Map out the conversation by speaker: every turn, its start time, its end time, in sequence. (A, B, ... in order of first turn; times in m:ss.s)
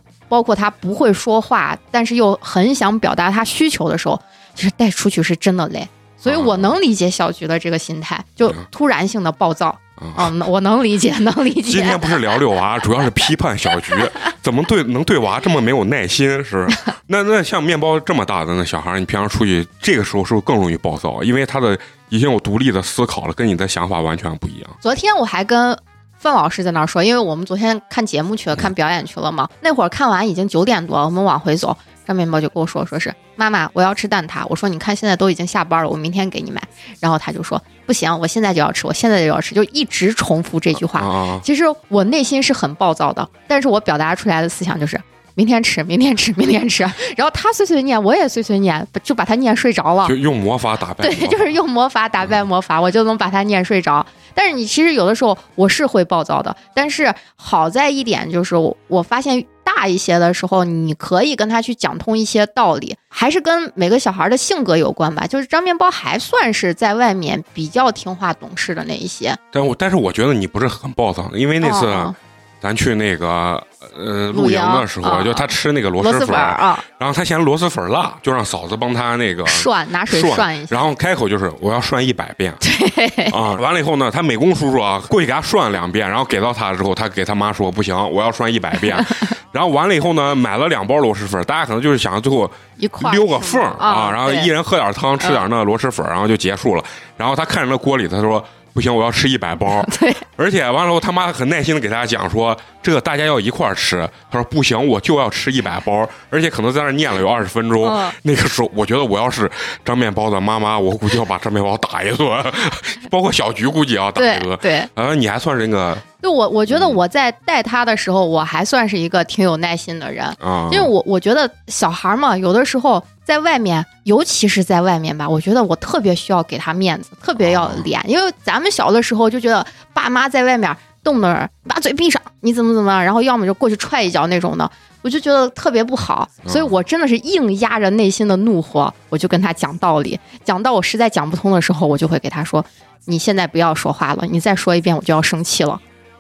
0:00.3-0:12.2 A
0:06.3-0:06.8 B
0:10.0-0:10.3 B
0:11.6-0:24.8 B
0:24.8-0:50.2 A
0:41.0-0:41.5 B
0:50.0-0:51.5 B
0:51.0-1:09.4 A
1:09.5-1:22.6 B
1:11.6-1:12.2 A
1:14.3-1:16.8 A
1:19.5-1:20.9 A
1:22.6-1:23.4 A
1:23.3-1:56.0 B
1:28.8-1:29.3 A
1:32.8-1:34.5 A
1:39.7-1:40.2 A
1:47.8-1:48.2 A
1:54.2-1:54.9 A
1:56.2-2:25.8 A
1:56.7-1:57.0 B
2:00.4-2:00.9 B
2:07.4-2:07.9 B
2:16.5-2:16.8 B